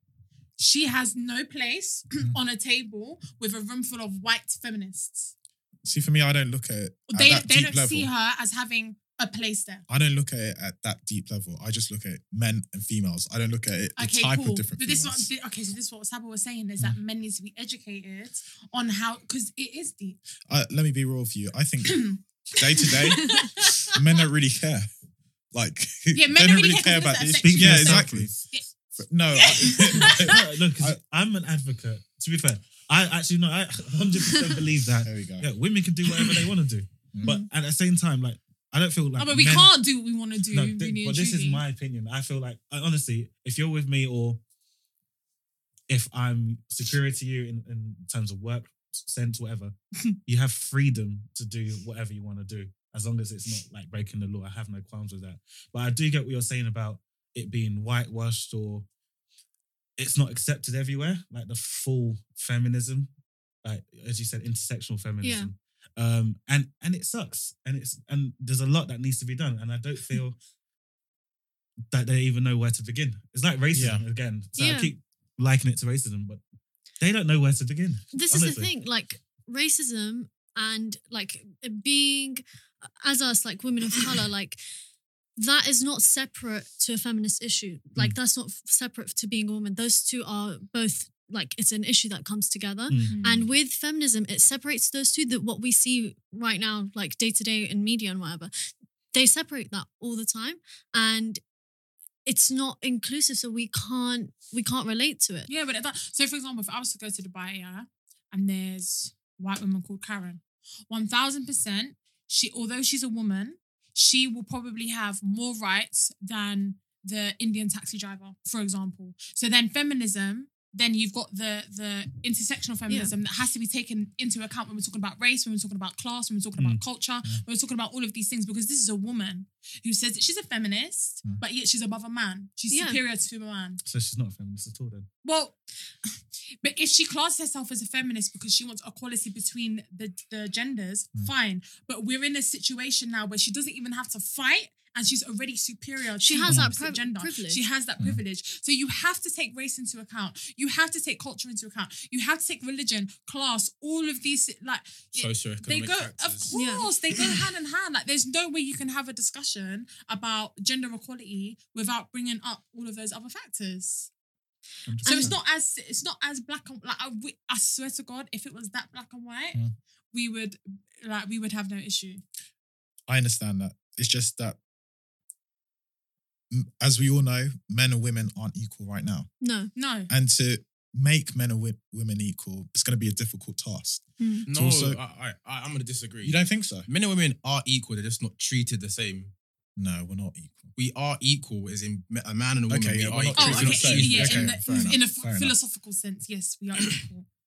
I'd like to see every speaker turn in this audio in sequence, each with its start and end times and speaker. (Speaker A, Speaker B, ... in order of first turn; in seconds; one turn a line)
Speaker A: 0.6-5.3
Speaker B: 5.8-8.1
Speaker A: 7.1-9.8
Speaker B: 9.9-15.3
Speaker A: 14.0-20.2
Speaker B: 20.5-24.9
Speaker A: 21.9-24.0
Speaker B: 25.5-28.4
Speaker A: 26.1-28.7
Speaker C: 27.4-28.5
Speaker B: 29.0-31.0
Speaker A: 29.3-30.4
Speaker C: 30.0-39.8
Speaker B: 35.0-35.5
Speaker B: 37.1-37.4
Speaker A: 39.2-41.6
Speaker C: 40.5-44.4
Speaker C: 45.9-49.8
Speaker C: 50.3-58.9
Speaker C: 60.0-63.1
Speaker C: 63.6-70.4
Speaker D: 65.2-65.5
Speaker C: 71.9-76.4
Speaker B: 73.7-74.0
Speaker D: 74.6-74.9
Speaker C: 77.0-78.7
Speaker D: 78.1-84.6
Speaker D: 85.4-101.4
Speaker C: 92.9-93.4
Speaker A: 93.1-93.5
Speaker D: 102.3-105.5
Speaker A: 105.5-133.8
Speaker C: 126.6-126.8
Speaker D: 132.7-133.0
Speaker C: 133.8-135.1
Speaker A: 135.2-164.1
Speaker D: 146.2-147.6
Speaker E: 155.2-156.5
Speaker D: 156.5-156.9
Speaker C: 164.9-165.4
Speaker D: 165.0-165.4
Speaker A: 165.1-172.2
Speaker B: 173.1-174.6
Speaker B: 176.5-179.3
Speaker D: 179.4-179.7
Speaker A: 179.8-180.1
Speaker B: 180.1-185.0
Speaker D: 184.2-184.5
Speaker E: 184.5-189.3
Speaker B: 186.2-186.9
Speaker B: 189.8-190.7
Speaker E: 190.8-194.6
Speaker B: 192.7-195.6
Speaker A: 193.3-197.3